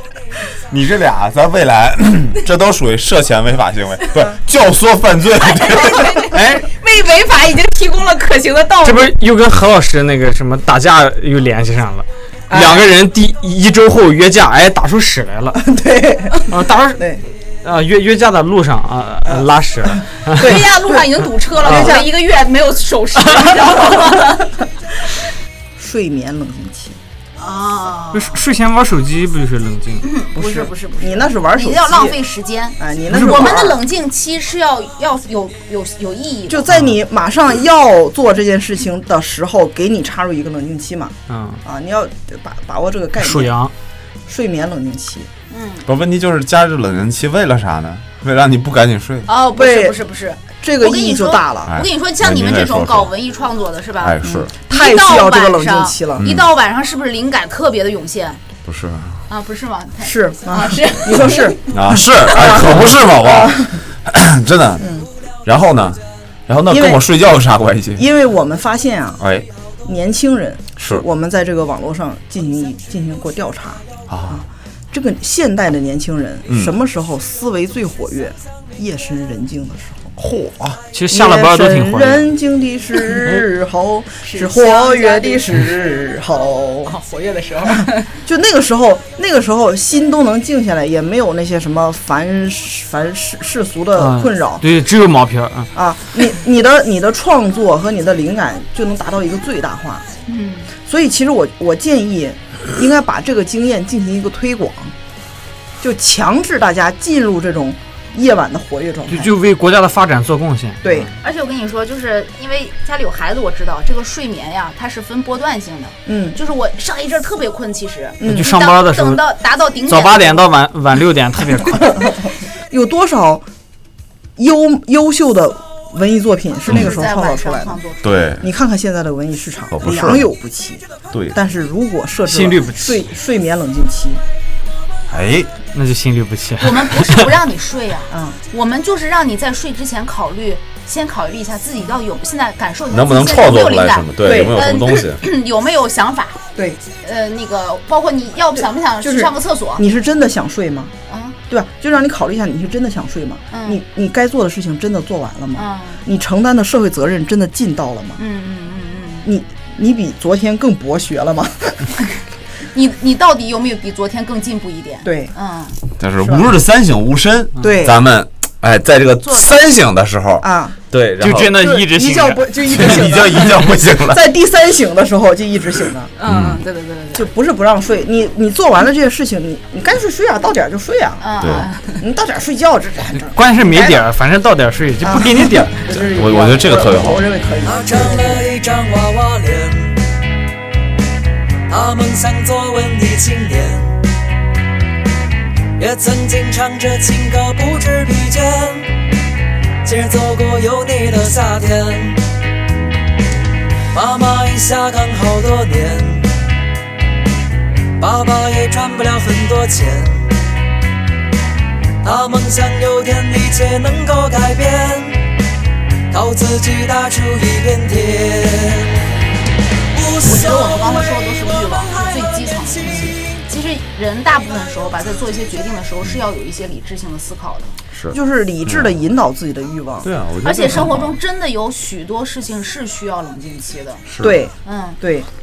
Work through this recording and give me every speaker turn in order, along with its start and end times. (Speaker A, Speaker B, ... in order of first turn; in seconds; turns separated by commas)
Speaker A: 0.7-6.2, Speaker B: 5.4-9.1, Speaker C: 6.3-6.7, Speaker C: 8.8-15.7, Speaker D: 12.5-12.9, Speaker D: 15.6-16.4, Speaker C: 16.4-20.6, Speaker D: 19.2-21.1, Speaker B: 20.4-24.6, Speaker D: 21.6-22.1, Speaker C: 21.6-21.9, Speaker D: 25.8-27.0, Speaker B: 27.4-28.4, Speaker C: 28.1-30.0, Speaker B: 30.0-36.7, Speaker D: 30.3-32.1, Speaker D: 32.8-33.8, Speaker C: 33.1-33.5, Speaker D: 36.5-43.5, Speaker C: 36.7-37.0, Speaker C: 41.3-41.6, Speaker C: 43.2-43.7, Speaker D: 44.3-45.3, Speaker B: 45.5-45.9, Speaker A: 45.9-49.3, Speaker B: 49.3-54.2, Speaker D: 49.6-50.0, Speaker D: 50.6-51.7, Speaker A: 51.7-53.1, Speaker A: 54.0-54.5, Speaker D: 54.2-56.3, Speaker B: 54.7-58.4, Speaker A: 56.2-56.5, Speaker A: 58.6-59.2, Speaker B: 59.3-61.7, Speaker D: 60.0-63.8, Speaker A: 61.7-64.9, Speaker D: 64.8-65.1, Speaker A: 65.5-68.0, Speaker D: 66.7-67.0, Speaker D: 68.0-69.2, Speaker A: 69.2-69.5, Speaker D: 69.8-80.1, Speaker A: 70.8-71.0, Speaker A: 74.1-74.4, Speaker A: 80.2-80.8, Speaker C: 80.9-82.3, Speaker D: 81.1-86.9, Speaker B: 84.2-88.1, Speaker D: 87.8-94.6, Speaker C: 94.0-95.7, Speaker D: 95.7-100.0, Speaker B: 100.3-100.7, Speaker D: 100.8-104.9, Speaker D: 105.8-109.3, Speaker C: 109.1-111.1, Speaker D: 110.8-111.1, Speaker B: 111.2-120.5, Speaker D: 116.0-116.4, Speaker D: 118.2-118.6, Speaker C: 118.2-119.2, Speaker C: 119.8-122.0, Speaker D: 122.7-123.4, Speaker D: 124.4-127.8, Speaker B: 126.7-128.1, Speaker A: 128.0-128.4, Speaker D: 128.4-134.2, Speaker A: 129.7-130.3, Speaker C: 132.2-133.0, Speaker A: 135.1-135.5, Speaker C: 135.7-137.3, Speaker B: 136.6-146.4, Speaker D: 138.1-138.4, Speaker A: 142.9-145.2, Speaker D: 144.2-144.6, Speaker B: 147.0-149.8, Speaker D: 149.0-150.9, Speaker B: 151.1-151.4, Speaker D: 151.5-158.2, Speaker B: 153.5-153.8, Speaker B: 155.5-156.0, Speaker B: 158.2-159.3, Speaker D: 159.2-161.9, Speaker B: 162.7-165.8, Speaker D: 165.0-165.3, Speaker A: 166.0-171.6, Speaker D: 166.2-166.5, Speaker D: 167.6-168.0, Speaker B: 169.2-169.6, Speaker D: 170.4-170.8, Speaker C: 171.2-173.2, Speaker D: 171.5-176.1, Speaker A: 172.7-174.2, Speaker B: 176.2-177.3, Speaker A: 176.3-176.6, Speaker D: 177.1-181.3, Speaker B: 181.2-182.0, Speaker A: 181.4-181.7, Speaker D: 182.0-184.0, Speaker C: 183.3-185.8, Speaker D: 185.0-188.5, Speaker A: 185.9-187.2, Speaker E: 187.6-190.0, Speaker E: 191.7-194.0, Speaker E: 195.8-199.0, Speaker E: 199.8-202.2, Speaker E: 203.9-206.3, Speaker E: 208.0-210.3, Speaker E: 212.0-215.2, Speaker E: 216.1-219.0, Speaker E: 219.9-220.8, Speaker B: 220.2-227.8, Speaker D: 222.8-223.1, Speaker A: 227.9-229.0, Speaker D: 228.1-230.1, Speaker A: 230.0-231.1, Speaker B: 230.4-234.0, Speaker A: 234.1-234.3, Speaker D: 234.2-235.3, Speaker B: 234.6-235.0